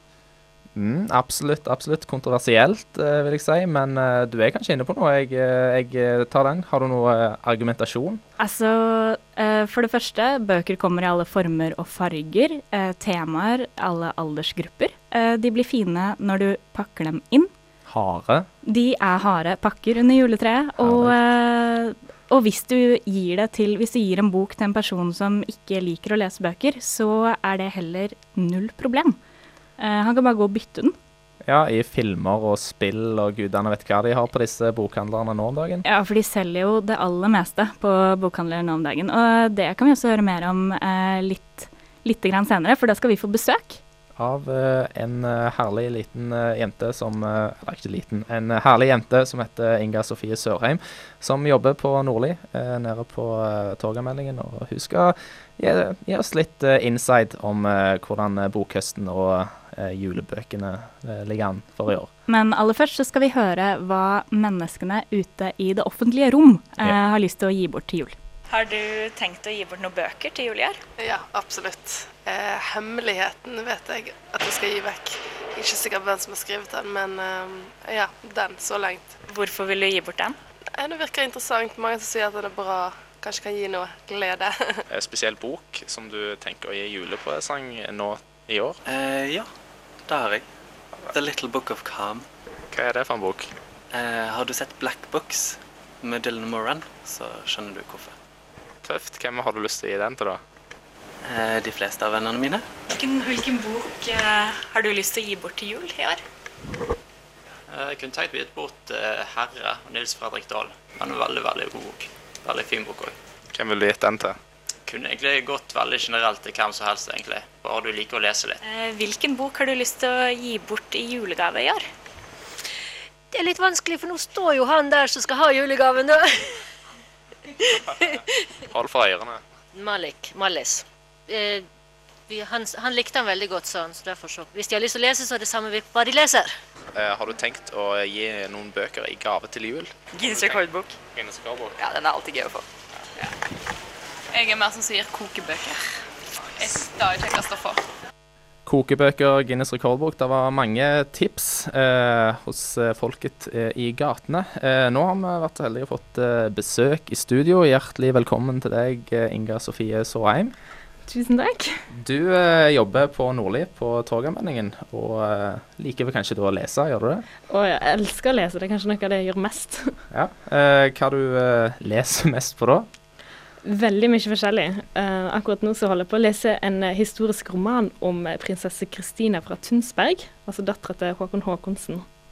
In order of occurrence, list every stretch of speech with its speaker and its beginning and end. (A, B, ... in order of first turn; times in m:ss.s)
0:00.7-0:08.2 A
0:08.4-0:17.5 B
0:17.8-0:18.5 A
0:18.6-0:29.2 B
0:20.8-0:21.2 A
0:29.8-0:30.9 B
0:31.4-0:35.8 A
0:35.8-0:43.8 B
0:44.2-1:02.1 A
1:02.3-1:10.8 B
1:11.0-1:19.2 C
1:19.3-1:20.4 B
1:20.7-1:24.8 C
1:24.9-1:28.8 A
1:28.9-1:29.4 C
1:29.0-1:29.4 D
1:30.1-1:30.4 C
1:31.2-1:32.2 D
1:31.3-1:31.9 C
1:32.7-1:33.5 A
1:34.0-1:35.5 D
1:34.6-1:35.4 C
1:36.0-1:38.1 D
1:36.0-1:38.1 C
1:38.8-1:40.4 A
1:41.3-1:42.6 D
1:41.3-1:42.5 C
1:42.9-1:46.2 B
1:47.7-1:53.2 E
1:53.5-1:54.4 A
1:54.8-1:58.6 E
1:58.6-2:01.9 B
2:03.3-2:06.6 F
2:08.7-2:09.4 A
2:09.7-2:11.7 F
2:12.3-2:16.5 F
2:16.9-2:20.6 A
2:20.1-2:20.9 G
2:21.1-2:21.8 A
2:21.8-2:22.6 G
2:24.3-2:25.8 G
2:26.6-2:27.8 G
2:28.6-2:40.5 A
2:41.1-2:41.8 H
2:41.9-2:47.2 A
2:47.5-2:50.0 H
2:50.1-2:52.9 A
2:53.6-3:02.0 H